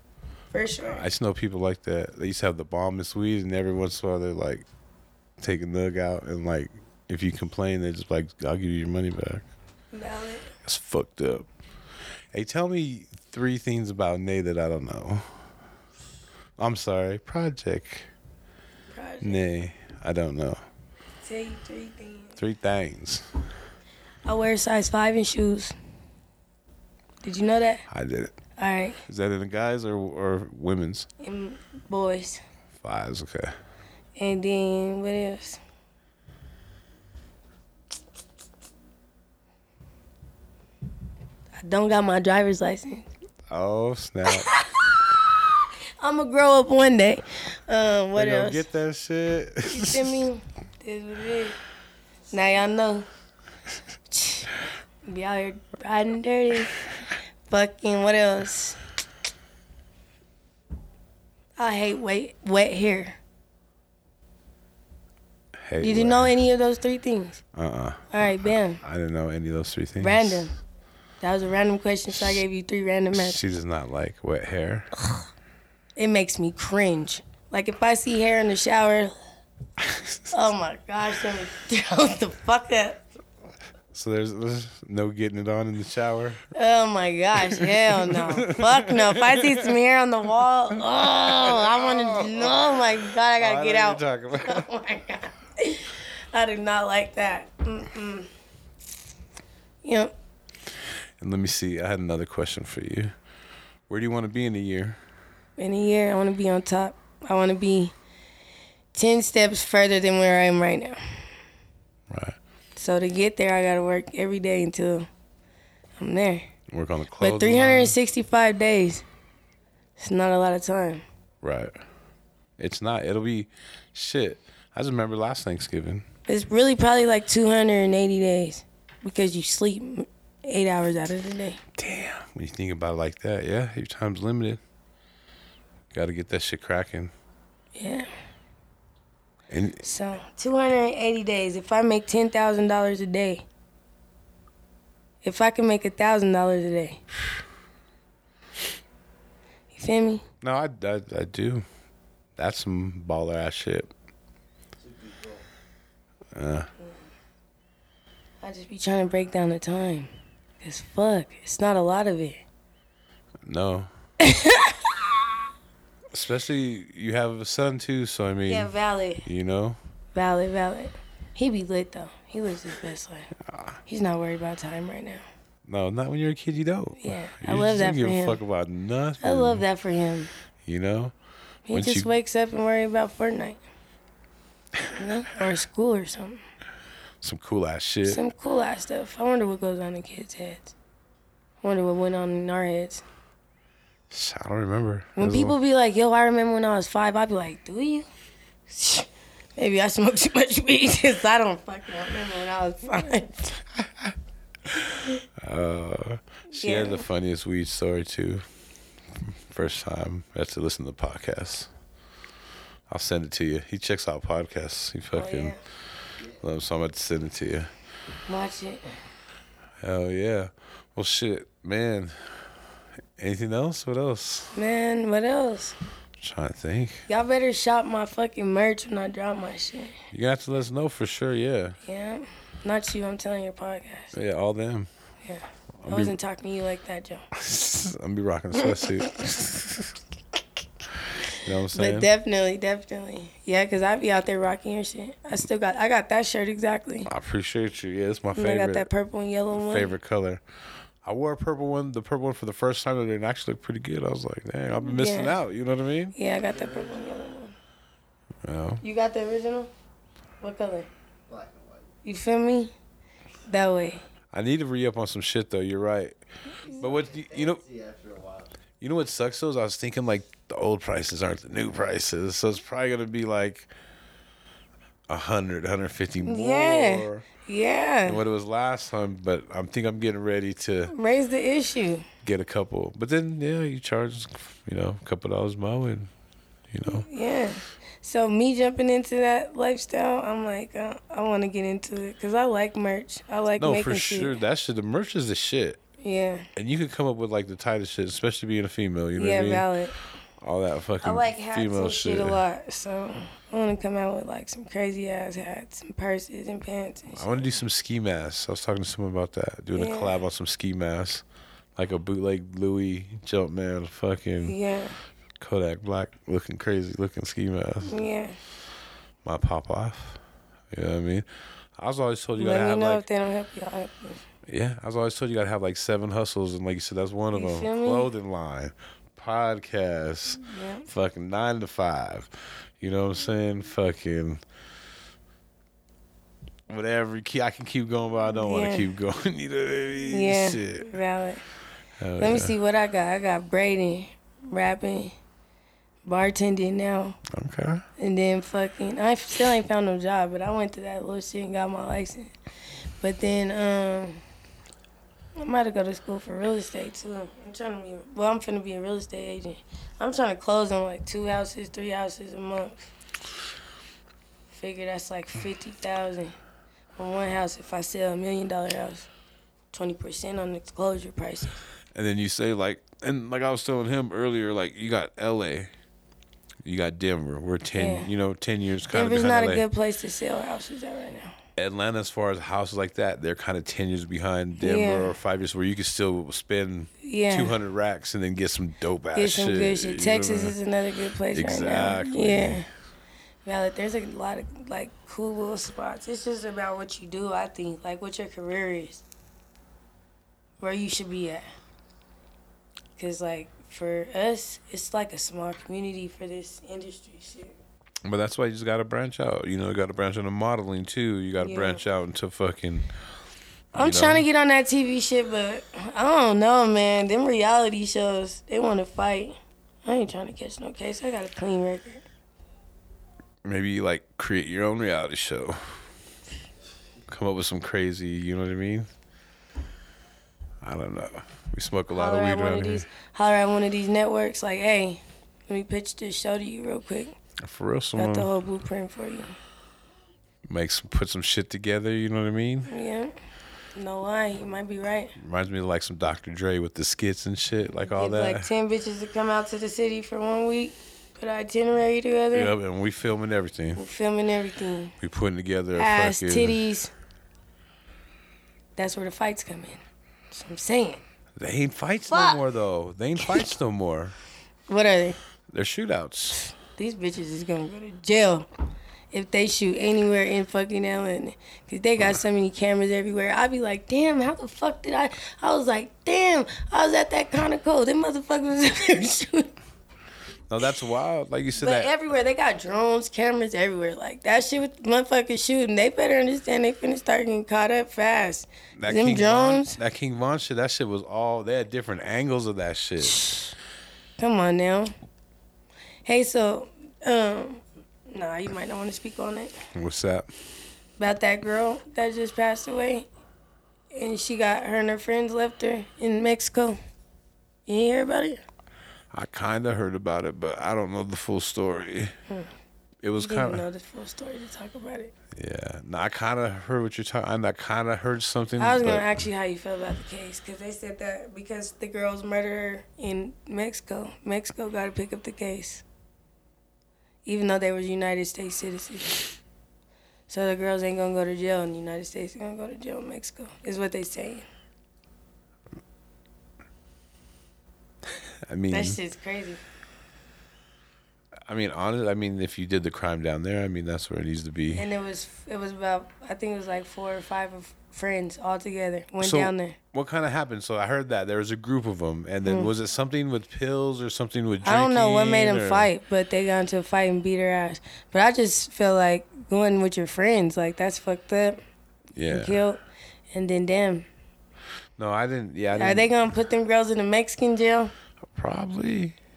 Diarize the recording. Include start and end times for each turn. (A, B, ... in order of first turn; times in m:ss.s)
0:00.5-0:01.0 A
0:00.9-0:04.7 B
0:05.4-0:09.4 B
0:09.9-0:10.5 A
0:10.6-0:11.5 B
0:12.3-0:15.4 B
0:16.6-0:18.1 B
0:18.9-0:19.4 A
0:19.2-0:20.6 B
0:21.2-0:22.4 A
0:22.4-0:23.3 B
0:24.2-0:25.8 A
0:27.2-0:27.8 A
0:27.9-0:28.3 B
0:28.6-0:29.0 A
0:29.1-0:31.1 B
0:31.2-0:32.4 A
0:32.8-0:33.6 B
0:34.2-0:35.6 A
0:41.6-0:43.1 A
0:43.5-0:44.5 B
0:44.3-0:48.6 A
0:48.2-0:50.2 B
0:49.7-0:51.6 A
0:52.3-0:53.1 A
0:54.1-0:54.5 A
0:55.0-0:56.7 A
0:57.5-0:58.8 A
1:01.6-1:03.2 A
1:05.6-1:06.4 B
1:05.8-1:07.4 A
1:07.5-1:08.1 B
1:08.1-1:08.8 A
1:08.8-1:10.5 B
1:10.0-1:10.6 A
1:11.2-1:13.4 A
1:13.1-1:15.0 B
1:16.0-1:19.1 A
1:19.8-1:20.2 B
1:20.3-1:23.0 A
1:23.9-1:26.4 B
1:26.5-1:38.3 A
1:27.5-1:29.7 B
1:30.9-1:34.6 B
1:39.8-1:40.1 A
1:41.2-1:43.1 B
1:43.9-1:45.0 B
1:45.6-1:47.9 A
1:48.9-1:51.2 A
1:52.1-1:52.4 B
1:52.8-1:55.1 A
1:56.0-1:56.5 A
1:56.7-1:58.0 B
1:57.2-1:59.0 A
2:00.0-2:01.0 A
2:01.4-2:01.8 B
2:02.6-2:06.0 B
2:06.3-2:11.6 A
2:11.8-2:14.6 B
2:15.9-2:17.1 B
2:17.8-2:18.1 A
2:19.5-2:19.8 B
2:19.8-2:23.5 A
2:25.2-2:27.0 A
2:29.7-2:30.2 A
2:30.4-2:31.6 B
2:32.4-2:33.9 B
2:34.8-2:35.4 C
2:36.4-2:36.7 B
2:38.4-2:42.4 A
2:43.4-2:43.9 B
2:44.2-2:45.0 A
2:46.1-2:48.7 B
2:48.5-2:49.2 A
2:49.2-2:49.8 B
2:50.1-2:53.3 A
2:53.9-2:55.2 A
2:55.7-2:59.6 B
2:57.0-2:58.4 A
2:59.2-3:00.3 A
3:00.6-3:01.1 B
3:01.7-3:03.6 A
3:01.7-3:02.1 B
3:04.9-3:06.4 A
3:07.2-3:08.2 B
3:08.0-3:10.7 A
3:11.6-3:13.0 A
3:14.1-3:15.6 B
3:15.2-3:18.1 A
3:18.7-3:23.6 A
3:23.8-3:24.1 B
3:25.4-3:28.4 B
3:26.6-3:27.0 A
3:29.5-3:31.7 B
3:32.9-3:35.5 B
3:35.1-3:35.6 A
3:36.4-3:37.7 B
3:38.3-3:38.8 A
3:39.8-3:42.4 B
3:43.2-3:44.6 B
3:44.5-3:45.8 A
3:46.2-3:47.1 B
3:47.1-3:50.0 A
3:50.1-3:51.8 B
3:51.8-3:54.1 A
3:54.1-3:54.9 B
3:55.2-3:57.2 A
3:55.8-3:56.2 B
3:57.3-3:59.9 B
3:58.6-3:59.1 A
4:01.3-4:02.1 B
4:01.7-4:07.1 A
4:07.1-4:08.9 B
4:08.4-4:09.9 A
4:09.6-4:10.4 B
4:11.0-4:16.2 B
4:14.8-4:15.3 A
4:16.2-4:17.6 A
4:16.4-4:17.1 C
4:18.4-4:18.8 B
4:18.8-4:19.7 A
4:20.4-4:20.9 A
4:21.3-4:21.9 C
4:22.0-4:22.7 A
4:23.5-4:24.0 A
4:24.3-4:26.2 B
4:26.6-4:28.5 C
4:26.8-4:27.6 B
4:28.8-4:33.7 B
4:35.1-4:37.2 B
4:36.2-4:38.2 A
4:38.0-4:40.9 B
4:40.9-4:42.1 A
4:42.2-4:46.1 B
4:46.7-4:47.1 B
4:46.8-4:54.4 A
4:53.6-4:55.8 B
4:56.0-4:56.5 A
4:56.6-4:59.7 B
4:59.2-4:59.9 A
5:00.4-5:02.4 B
5:01.0-5:07.5 A
5:07.1-5:11.2 B
5:09.8-5:10.2 A
5:11.8-5:14.6 B
5:14.4-5:15.0 A
5:15.4-5:18.0 B
5:17.9-5:18.4 A
5:19.2-5:20.2 B
5:20.7-5:21.3 B
5:21.8-5:23.0 B
5:22.4-5:24.2 A
5:24.5-5:34.4 B
5:27.3-5:28.1 A
5:30.4-5:30.9 A
5:36.7-5:40.9 B
5:38.3-5:38.9 A
5:40.1-5:41.4 A
5:42.0-5:42.5 B
5:42.2-5:45.1 A
5:46.0-5:47.2 A
5:47.3-5:47.8 B
5:48.0-5:52.3 A
5:53.0-5:54.2 A
5:55.4-6:02.9 A
6:04.5-6:06.4 A
6:07.0-6:09.1 A
6:09.7-6:11.6 A
6:12.0-6:15.7 B
6:16.6-6:19.6 B
6:17.7-6:18.1 A
6:18.9-6:21.4 A
6:21.6-6:30.6 B
6:24.6-6:25.1 A
6:27.0-6:27.5 A
6:29.2-6:32.7 A
6:31.3-6:32.6 B
6:33.4-6:39.0 A
6:40.6-6:41.5 A
6:43.0-6:47.6 A
6:48.0-6:52.8 B
6:51.4-6:51.8 A
6:53.7-6:54.2 B
6:53.8-7:02.0 A
7:03.4-7:05.8 B
7:07.1-7:08.9 B
7:10.6-7:12.8 B
7:11.9-7:17.2 A
7:17.4-7:18.3 B
7:18.0-7:19.4 A
7:20.5-7:22.7 B
7:22.7-7:23.1 A
7:23.8-7:25.1 A
7:25.2-7:28.5 B
7:27.8-7:32.5 A
7:32.3-7:33.8 B
7:33.8-7:35.0 A
7:35.0-7:36.6 B
7:35.8-7:36.9 A
7:38.8-7:41.0 A
7:41.4-7:44.2 B
7:42.1-7:42.4 A
7:43.2-7:43.5 A
7:44.7-7:45.2 A
7:45.5-7:46.5 B
7:46.6-7:48.5 A
7:49.1-7:59.6 A
8:00.5-8:01.9 B
8:01.6-8:09.8 A
8:08.8-8:13.4 B
8:13.1-8:13.5 A
8:14.2-8:14.9 A
8:16.0-8:19.6 A
8:19.7-8:20.3 B
8:21.0-8:23.1 A
8:23.9-8:26.8 A
8:27.7-8:28.4 A
8:29.1-8:32.2 B
8:33.0-8:33.6 B
8:33.2-8:35.1 A
8:35.4-8:39.2 B
8:38.6-8:45.8 A
8:47.2-8:49.2 A
8:50.3-8:54.5 A
8:58.5-8:59.0 B
8:58.7-8:59.6 A
9:01.5-9:04.9 B
9:04.7-9:09.8 A
9:09.2-9:15.9 B
9:12.5-9:12.7 A
9:14.6-9:21.6 A
9:22.2-9:22.6 B
9:22.3-9:24.1 A
9:25.0-9:26.1 B
9:25.8-9:27.9 A
9:28.4-9:29.2 B